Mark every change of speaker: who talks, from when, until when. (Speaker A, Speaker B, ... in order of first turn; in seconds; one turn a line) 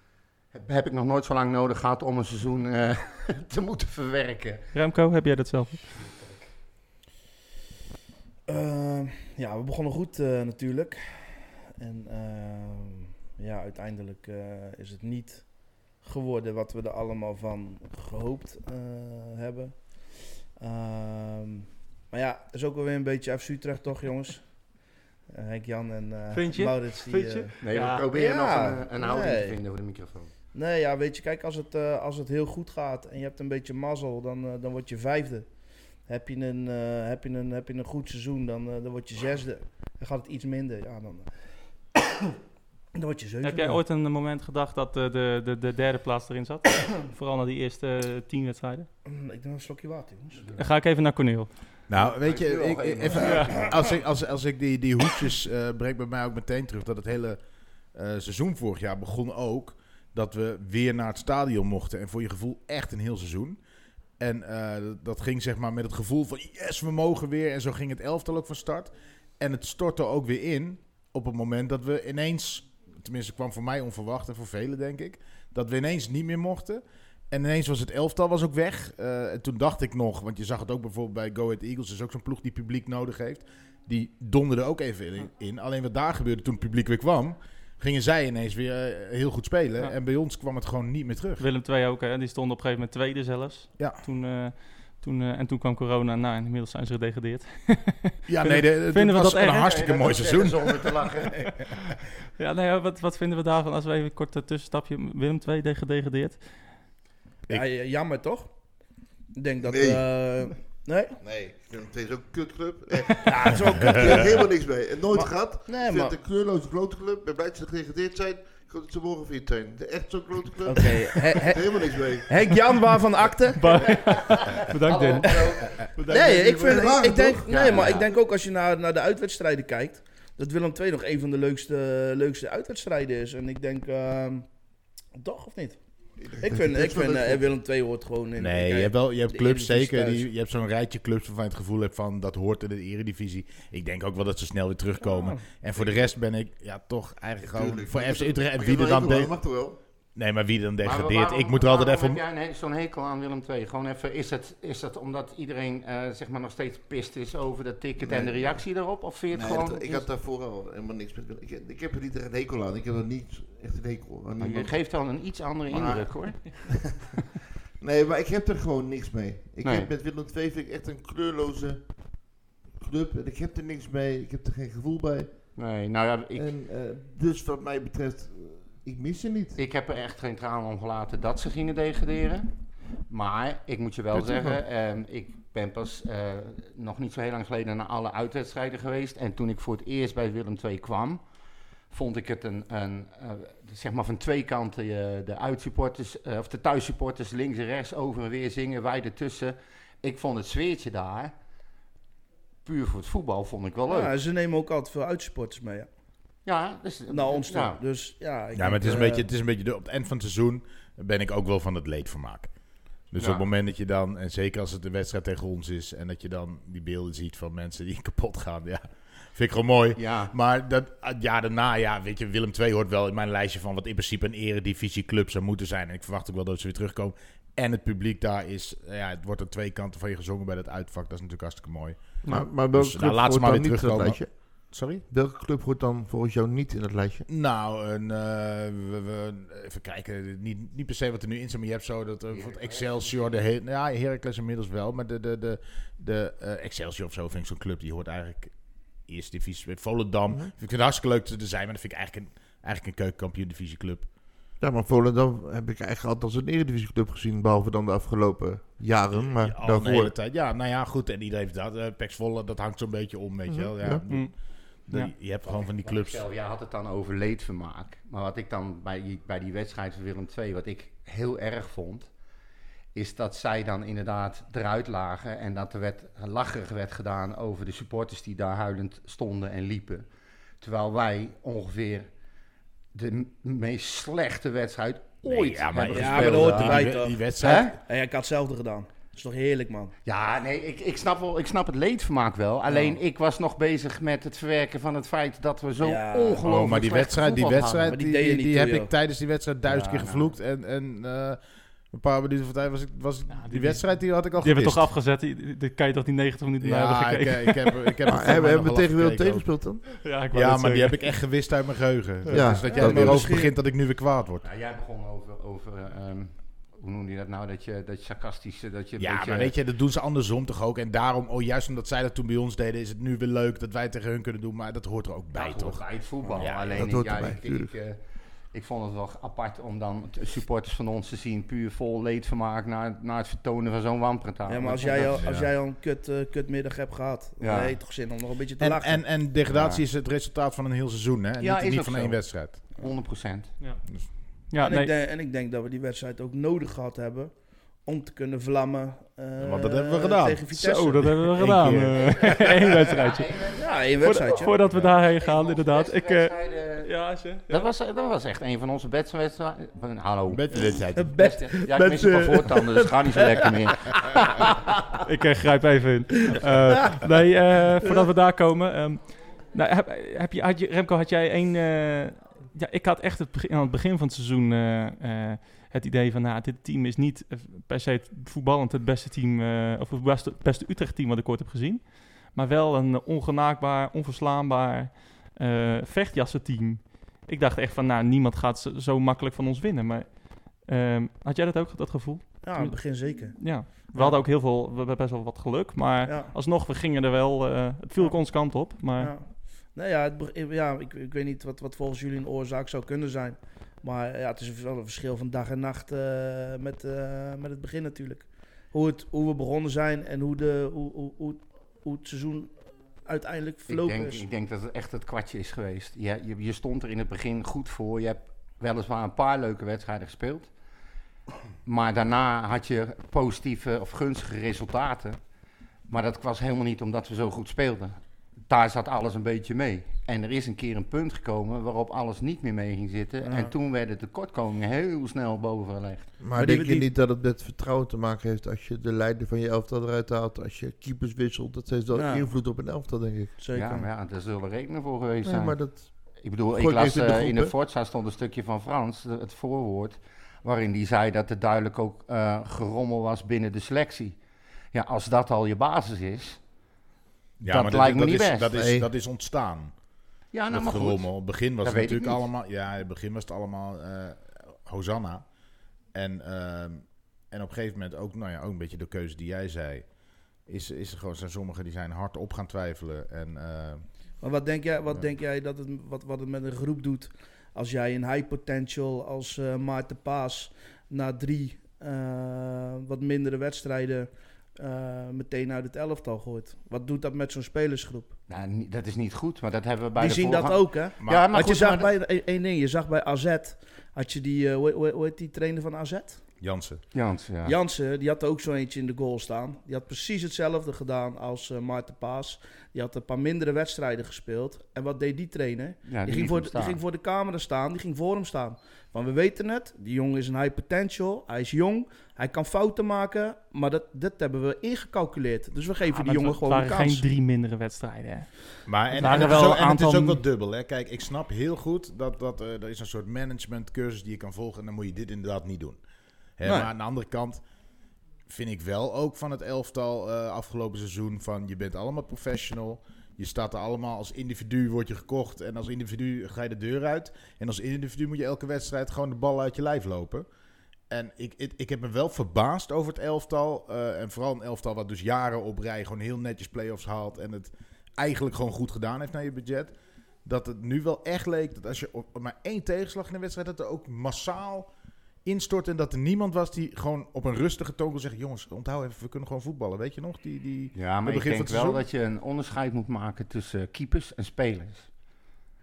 Speaker A: 0.5-4.7
Speaker B: 4.7-6.0
Speaker A: 6.0-6.5
Speaker C: 8.5-19.9
Speaker C: 20.6-24.4
Speaker C: 25.3-27.5
Speaker B: 26.3-28.0
Speaker A: 27.6-30.3
Speaker C: 28.1-29.6
Speaker C: 30.5-35.5
Speaker C: 36.0-41.3
Speaker C: 42.9-43.8
Speaker B: 43.4-48.9
Speaker C: 49.0-50.5
Speaker A: 50.4-50.6
Speaker B: 50.5-51.5
Speaker D: 51.9-57.4
Speaker A: 51.9-53.9
Speaker D: 57.9-63.6
Speaker D: 64.2-91.4
Speaker B: 91.4-99.8
Speaker D: 98.3-101.2
Speaker A: 99.6-101.4
Speaker B: 102.4-106.5
Speaker C: 107.5-108.5
Speaker C: 109.3-111.2
Speaker E: 109.6-110.0
Speaker E: 111.2-122.5
Speaker C: 113.2-114.3
Speaker D: 113.7-114.2
Speaker C: 115.1-116.2
Speaker C: 120.6-123.7
Speaker B: 123.5-126.8
Speaker A: 123.8-125.8
Speaker C: 125.2-125.5
Speaker E: 126.0-127.9
Speaker C: 126.1-134.5
Speaker A: 127.5-128.1
Speaker C: 135.2-135.8
Speaker E: 136.2-137.5
Speaker C: 136.4-140.3
Speaker D: 138.4-149.4
Speaker C: 145.0-145.4
Speaker E: 147.4-149.8
Speaker D: 150.1-152.2
Speaker A: 150.8-160.1
Speaker E: 158.0-158.6
Speaker E: 159.3-164.8
Speaker A: 164.4-166.8
Speaker E: 165.7-167.1
Speaker E: 167.8-175.5
Speaker A: 169.6-169.9
Speaker A: 175.6-176.4
Speaker E: 176.3-179.6
Speaker A: 179.6-182.5
Speaker A: 183.1-191.2
Speaker E: 184.1-184.6
Speaker A: 191.9-201.3
Speaker A: 202.6-204.1
Speaker C: 203.9-205.9
Speaker A: 206.4-207.8
Speaker C: 207.1-209.3
Speaker D: 208.5-212.5
Speaker D: 213.1-235.0
Speaker A: 213.2-213.5
Speaker A: 219.9-220.3
Speaker E: 232.2-237.2
Speaker D: 237.3-248.5
Speaker A: 242.3-243.4
Speaker D: 249.1-254.1
Speaker E: 254.6-260.1
Speaker D: 259.2-264.3
Speaker E: 263.5-264.0
Speaker D: 264.9-266.2
Speaker A: 265.4-272.1
Speaker A: 272.9-280.1
Speaker A: 280.6-282.1
Speaker A: 282.9-286.9
Speaker D: 285.2-287.8
Speaker C: 285.9-289.9
Speaker A: 287.4-287.7
Speaker A: 290.0-297.9
Speaker C: 292.7-292.9
Speaker C: 295.8-296.4
Speaker D: 296.4-301.4
Speaker C: 297.9-298.9
Speaker A: 299.6-300.3
Speaker D: 301.9-304.9
Speaker B: 303.3-308.0
Speaker D: 306.6-309.5
Speaker E: 308.1-310.0
Speaker B: 310.0-311.1
Speaker D: 310.3-314.4
Speaker E: 312.3-313.4
Speaker C: 312.3-313.5
Speaker A: 314.4-319.5
Speaker D: 319.0-325.8
Speaker A: 325.3-328.0
Speaker E: 326.4-327.7
Speaker D: 326.4-326.8
Speaker A: 328.5-335.3
Speaker C: 334.5-339.0
Speaker D: 335.2-335.5
Speaker A: 337.4-337.8
Speaker D: 338.6-342.6
Speaker A: 339.5-339.8
Speaker A: 341.4-343.5
Speaker B: 344.5-344.9
Speaker C: 344.6-351.1
Speaker D: 349.4-352.0
Speaker B: 350.5-353.4
Speaker A: 351.9-356.9
Speaker C: 353.5-354.6
Speaker B: 354.0-357.6
Speaker A: 357.5-364.2
Speaker D: 360.3-361.1
Speaker C: 360.9-365.0
Speaker B: 365.0-399.1
Speaker C: 366.2-367.1
Speaker C: 392.4-394.2
Speaker C: 396.1-396.3
Speaker C: 399.0-412.5
Speaker C: 413.0-414.2
Speaker A: 413.7-420.5
Speaker A: 421.6-425.2
Speaker A: 425.9-436.1
Speaker C: 433.2-433.5
Speaker E: 436.2-443.3
Speaker C: 436.4-436.9
Speaker C: 441.9-442.3
Speaker C: 443.4-443.9
Speaker A: 443.5-454.1
Speaker E: 445.2-445.9
Speaker E: 446.5-447.5
Speaker A: 454.7-456.4
Speaker D: 457.4-459.7
Speaker A: 457.5-458.5
Speaker E: 458.5-458.9
Speaker A: 460.3-462.2
Speaker D: 460.5-465.2
Speaker D: 465.9-469.9
Speaker D: 470.5-473.9
Speaker C: 474.2-488.1
Speaker A: 488.3-491.9
Speaker C: 489.9-496.2
Speaker D: 491.0-491.3
Speaker D: 496.4-496.8
Speaker A: 496.9-497.6
Speaker C: 497.4-517.0
Speaker A: 505.9-506.8
Speaker B: 515.9-518.3
Speaker D: 518.7-525.8
Speaker B: 518.9-520.2
Speaker D: 526.4-527.4
Speaker C: 526.4-526.7
Speaker D: 528.3-540.3
Speaker D: 540.9-554.7
Speaker D: 555.2-561.8
Speaker A: 560.7-564.9